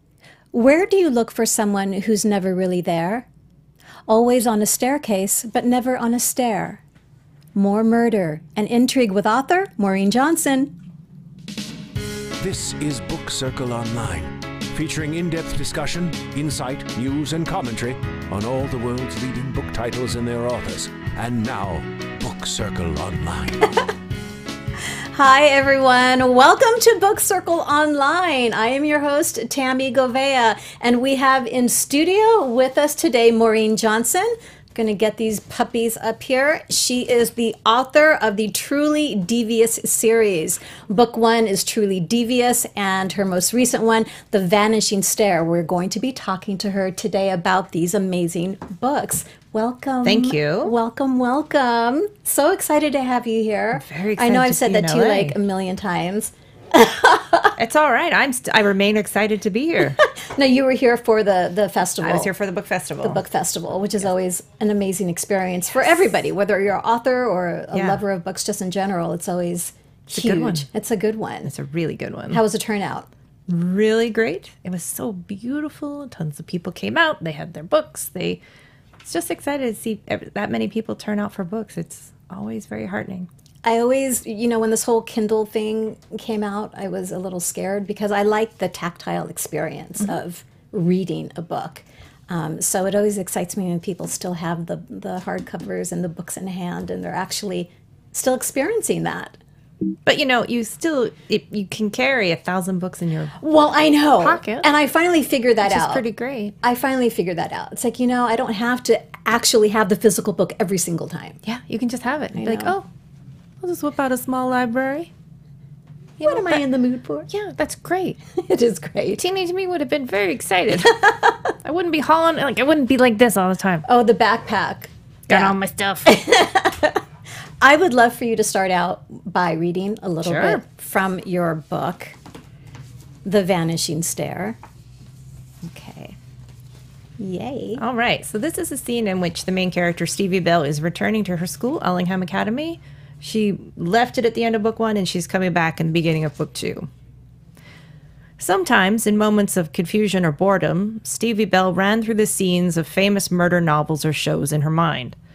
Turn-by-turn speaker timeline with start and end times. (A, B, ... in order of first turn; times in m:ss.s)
0:00.5-0:03.3 A
0:04.1-0:06.8 A
0:07.6-0:10.8 A
0:12.4-0:23.7 B
0:25.1-0:57.6 A
0:50.0-0:50.7 C
0:53.8-0:55.4 C
0:57.6-1:00.0 C
1:00.0-1:02.3 A
1:02.0-1:03.2 C
1:03.0-1:11.5 A
1:07.7-1:08.0 C
1:10.1-1:10.7 C
1:11.4-1:12.4 C
1:12.3-1:13.1 A
1:13.5-1:18.4 C
1:19.0-1:23.3 C
1:23.6-1:39.4 A
1:40.1-1:43.4 C
1:43.4-1:46.0 A
1:44.2-1:44.7 C
1:45.6-1:46.6 C
1:46.6-1:51.4 A
1:51.4-1:52.9 C
1:52.4-1:52.8 A
1:53.6-1:55.1 C
1:56.2-1:56.6 C
1:56.2-1:57.3 A
1:57.3-1:58.2 C
1:58.4-1:59.2 A
1:59.1-2:01.0 C
2:01.0-2:01.4 A
2:01.6-2:03.9 C
2:03.9-2:05.5 A
2:05.3-2:06.2 C
2:06.1-2:07.0 A
2:07.6-2:12.2 A
2:10.2-2:10.6 C
2:13.2-2:14.6 A
2:15.6-2:16.2 A
2:17.2-2:17.8 A
2:17.8-2:26.9 C
2:28.4-2:35.2 C